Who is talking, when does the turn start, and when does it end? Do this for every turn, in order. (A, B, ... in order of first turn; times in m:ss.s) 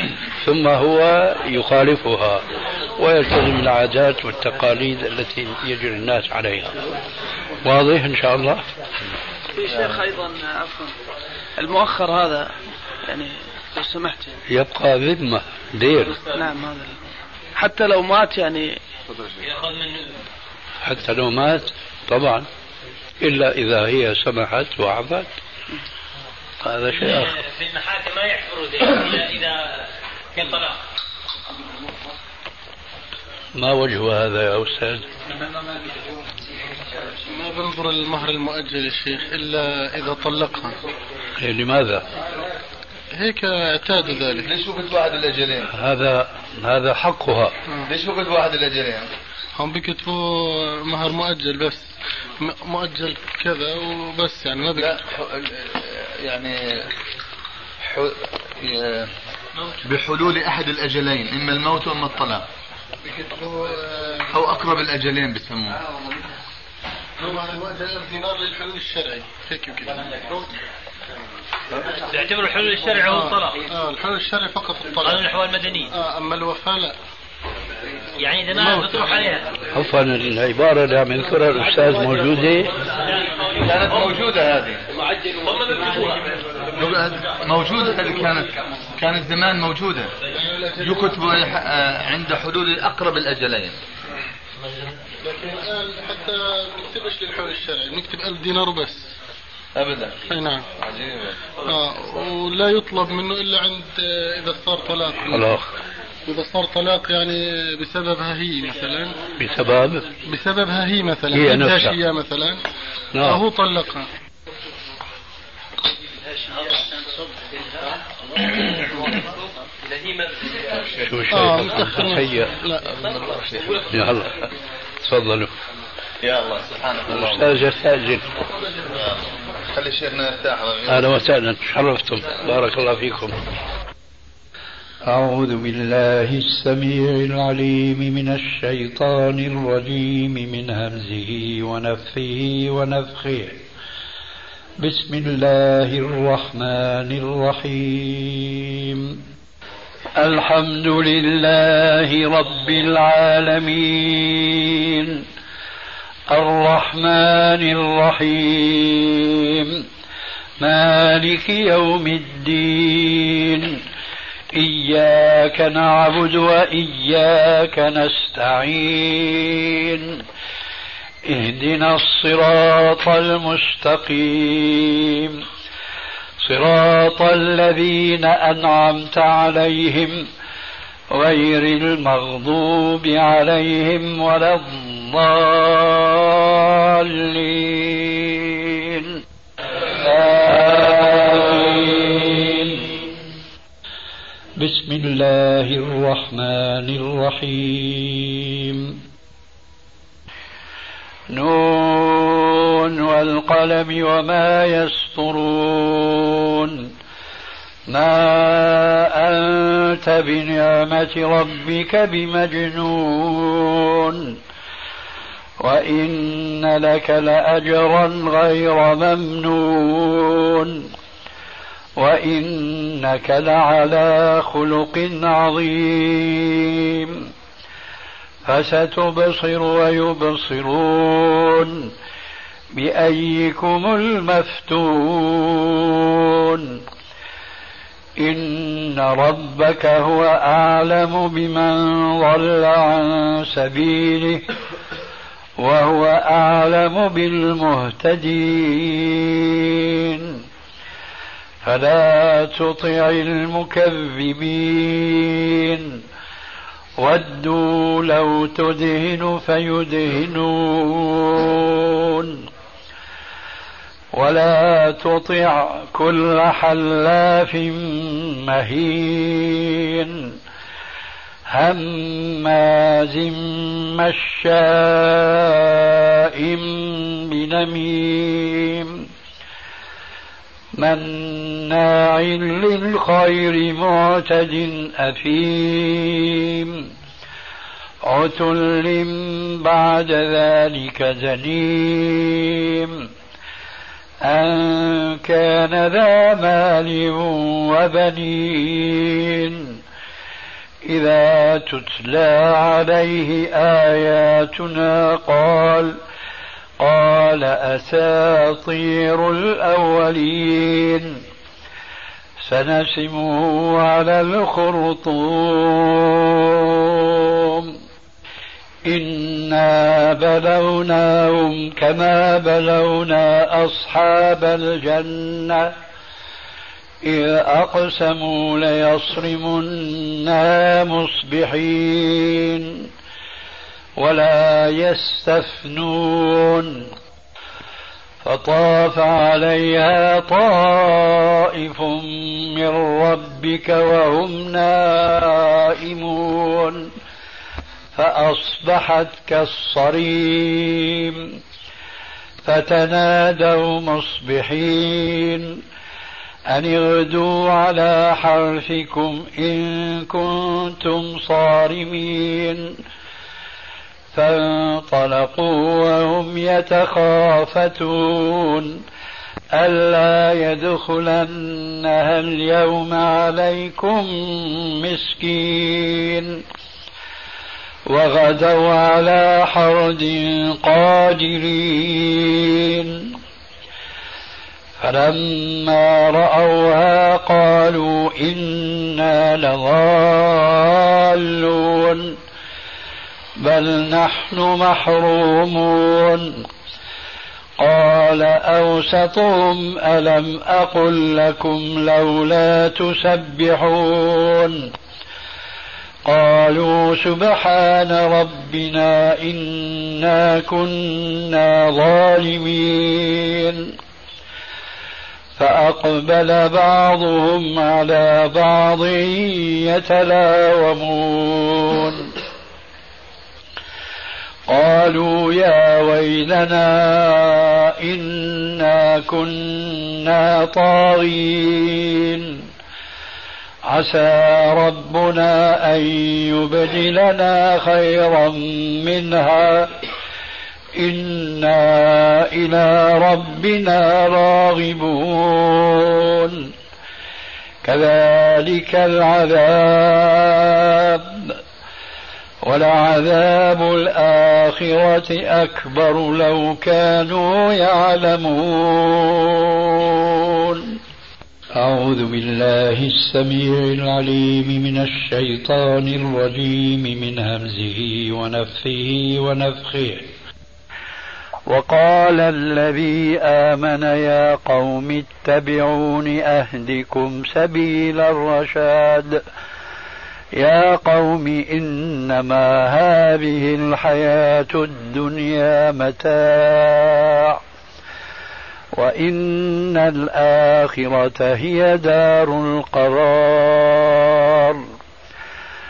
0:00.4-0:02.4 A
0:03.0-0:06.8 A
0:07.6-0:08.6 A
0:09.7-0:10.0 B
0:09.8-0:10.9 C
0:11.6-0:12.5 C
0:13.1-0:14.3 C
0:14.5-0:16.2 A
0:16.2-0:16.5 D
0:16.4-0:16.8 C
0:17.6-0:18.7 C
0:19.4-0:20.2 D
0:20.8-0:22.5 A
0:23.2-0:25.3 A
0:26.6-0:27.4 A
0:27.0-0:29.6 D
0:30.3-0:30.8 D
0:33.6-0:35.1 A
0:37.3-0:40.8 E
0:41.4-0:42.0 A
0:43.2-0:44.5 E
0:44.4-0:45.7 B
0:45.7-0:47.5 A
0:47.8-0:49.1 B
0:49.6-0:55.0 E
0:54.8-0:56.9 B
0:57.8-0:59.1 B
0:59.8-1:02.4 B
1:03.0-1:04.3 E
1:04.3-1:05.8 B
1:07.2-1:10.4 E
1:12.1-1:13.6 D
1:13.0-1:15.3 E
1:15.0-1:15.9 D
1:15.9-1:16.9 E
1:18.2-1:19.4 D
1:18.5-1:19.0 E
1:19.7-1:22.7 A
1:23.0-1:24.1 D
1:23.6-1:24.8 B
1:25.3-1:26.3 D
1:26.8-1:30.1 B
1:30.3-1:31.2 E
1:30.8-1:33.8 B
1:35.2-1:39.0 E
1:39.8-1:40.2 B
1:40.3-1:40.6 E
1:40.8-1:41.4 B
1:41.6-1:45.5 E
1:45.3-1:45.7 A
1:46.3-1:49.1 E
1:49.4-1:50.0 A
1:50.3-1:52.6 E
1:51.3-1:52.0 A
1:53.1-1:53.4 A
1:53.2-1:54.0 E
2:01.0-2:02.5 A
2:01.3-2:02.8 E
2:02.8-2:03.9 B
2:03.9-2:04.3 A
2:05.0-2:05.5 A
2:06.2-2:07.6 B
2:07.1-2:08.2 A
2:08.8-2:11.2 B
2:10.9-2:13.3 A
2:15.1-2:23.6 A
2:24.8-2:29.2 A
2:30.2-2:35.2 A
2:36.3-2:39.8 A
2:40.6-2:43.8 A
2:44.5-2:50.2 A
2:51.2-2:55.4 A
2:56.4-3:00.2 A
3:01.1-3:09.2 A
3:09.9-3:13.1 A
3:14.6-3:19.0 A
3:21.3-3:26.9 A
3:27.9-3:34.4 A
3:35.6-3:40.9 A
3:42.0-3:47.3 A
3:48.4-3:51.9 A
3:52.7-3:56.8 A
3:58.2-4:04.4 A
4:05.6-4:10.4 A
4:11.6-4:16.0 A
4:17.0-4:22.4 A
4:24.1-4:30.3 A
4:31.5-4:39.1 A
4:40.8-4:46.9 A
4:48.0-4:53.1 A
4:54.2-4:59.8 A
5:00.8-5:06.0 A
5:06.8-5:11.2 A
5:12.4-5:17.7 A
5:18.8-5:25.7 A
5:27.0-5:32.9 A
5:34.0-5:36.9 A
5:38.2-5:46.9 A
5:48.0-5:51.4 A
5:52.4-5:55.6 A
5:56.5-6:02.8 A
6:04.1-6:08.8 A
6:09.5-6:16.4 A
6:17.9-6:23.1 A
6:24.8-6:32.2 A
6:33.4-6:36.4 A
6:37.6-6:44.7 A
6:46.0-6:53.7 A
6:55.4-7:02.1 A
7:04.5-7:12.4 A
7:13.7-7:19.7 A
7:20.8-7:26.5 A
7:27.6-7:31.4 A
7:32.4-7:40.8 A
7:41.6-7:50.1 A
7:51.5-7:59.2 A
8:00.4-8:07.4 A
8:08.8-8:14.6 A